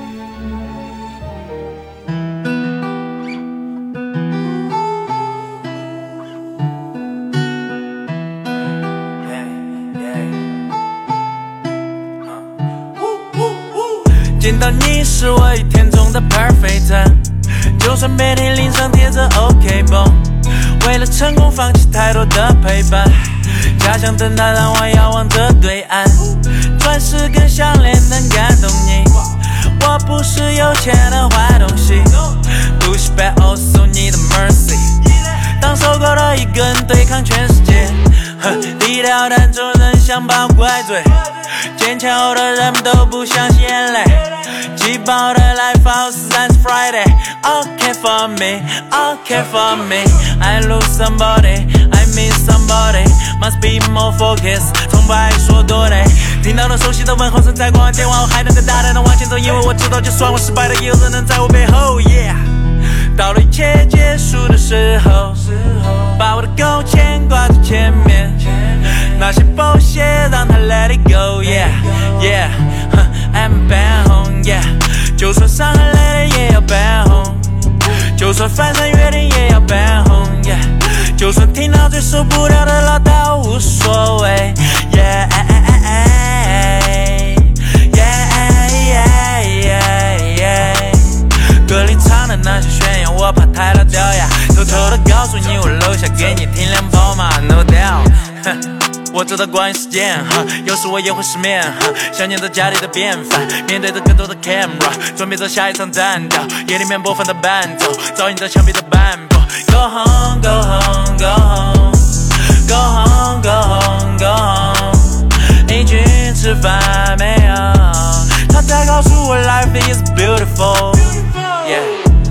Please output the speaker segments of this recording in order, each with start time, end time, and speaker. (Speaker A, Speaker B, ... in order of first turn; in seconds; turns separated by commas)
Speaker A: 13.4-122.0